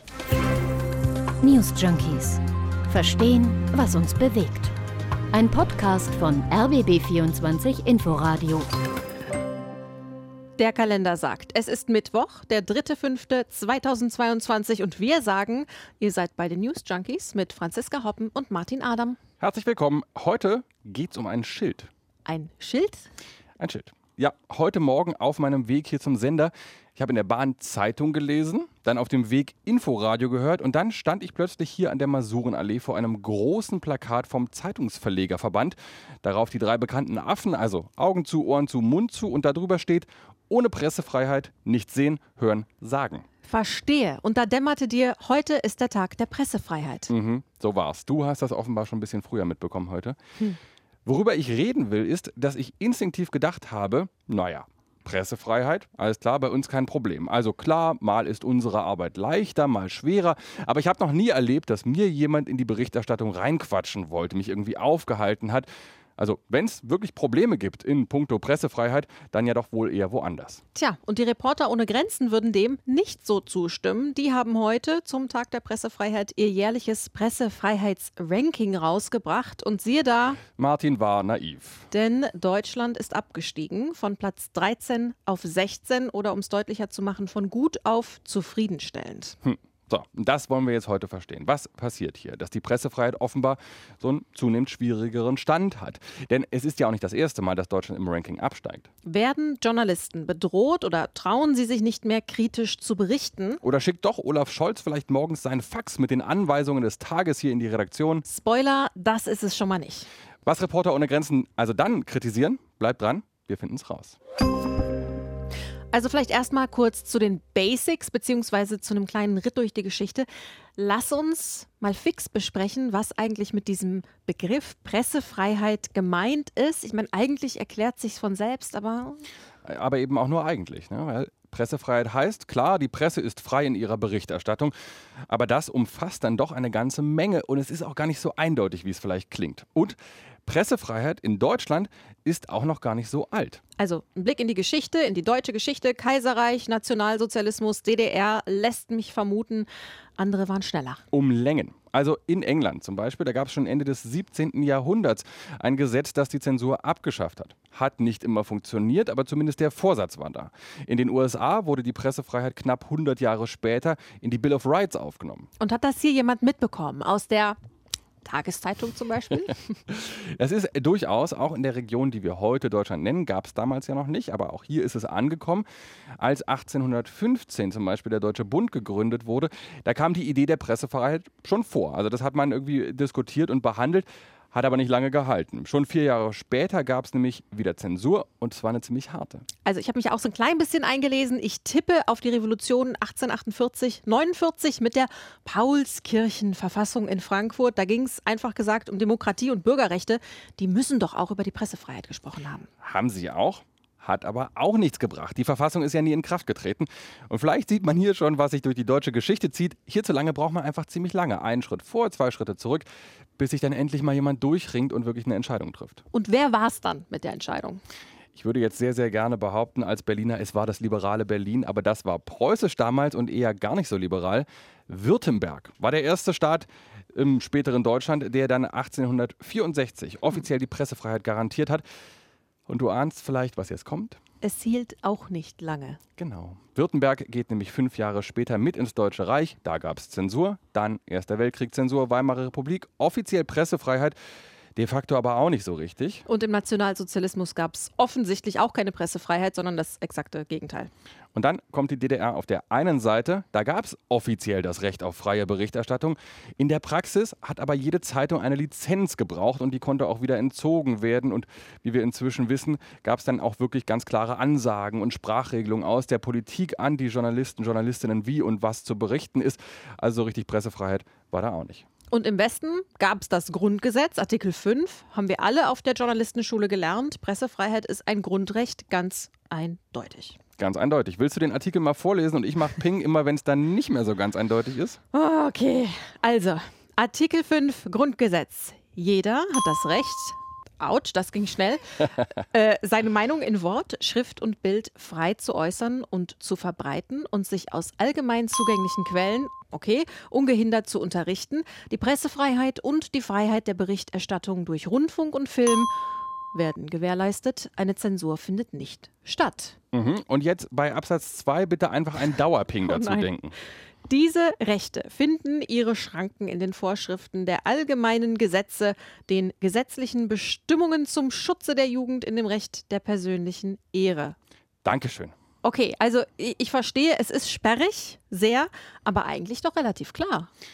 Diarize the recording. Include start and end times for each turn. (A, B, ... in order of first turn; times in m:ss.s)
0:01.4-0:04.7 A
0:05.3-0:08.7 A
0:10.6-0:19.2 B
0:19.4-0:21.9 C
0:22.3-0:23.1 B
0:23.6-0:43.2 C
0:43.5-0:47.1 B
0:47.1-0:50.2 C
0:51.0-1:05.7 C
1:06.2-1:10.6 C
1:10.8-1:20.4 B
1:20.6-1:21.9 C
1:21.9-1:29.4 B
1:29.4-1:38.9 C
1:39.1-1:43.6 B
1:43.6-1:48.2 C
1:48.2-1:50.1 B
1:50.5-1:54.2 C
1:55.9-2:09.2 B
2:09.6-2:14.7 C
2:15.3-2:23.6 C
2:23.8-2:31.0 B
2:31.1-2:45.5 C
2:45.6-2:47.6 B
2:48.2-2:49.7 B
2:49.9-2:55.7 C
2:56.2-3:09.4 C
3:09.6-3:22.7 B
3:22.8-3:32.9 C
3:33.4-3:36.0 C
3:36.1-3:37.8 B
3:38.4-3:51.8 C
3:52.7-3:54.2 C
3:54.4-3:56.0 B
3:56.2-4:04.2 C
4:04.8-4:06.2 C
4:06.3-4:10.9 B
4:11.4-4:31.8 C
4:32.1-4:40.4 B
4:40.6-4:45.0 C
4:45.1-5:05.9 B
5:06.5-5:09.8 B
5:09.9-5:13.5 C
5:12.9-5:13.3 B
5:14.1-5:24.4 B
5:24.8-5:25.3 C
5:25.6-5:30.5 B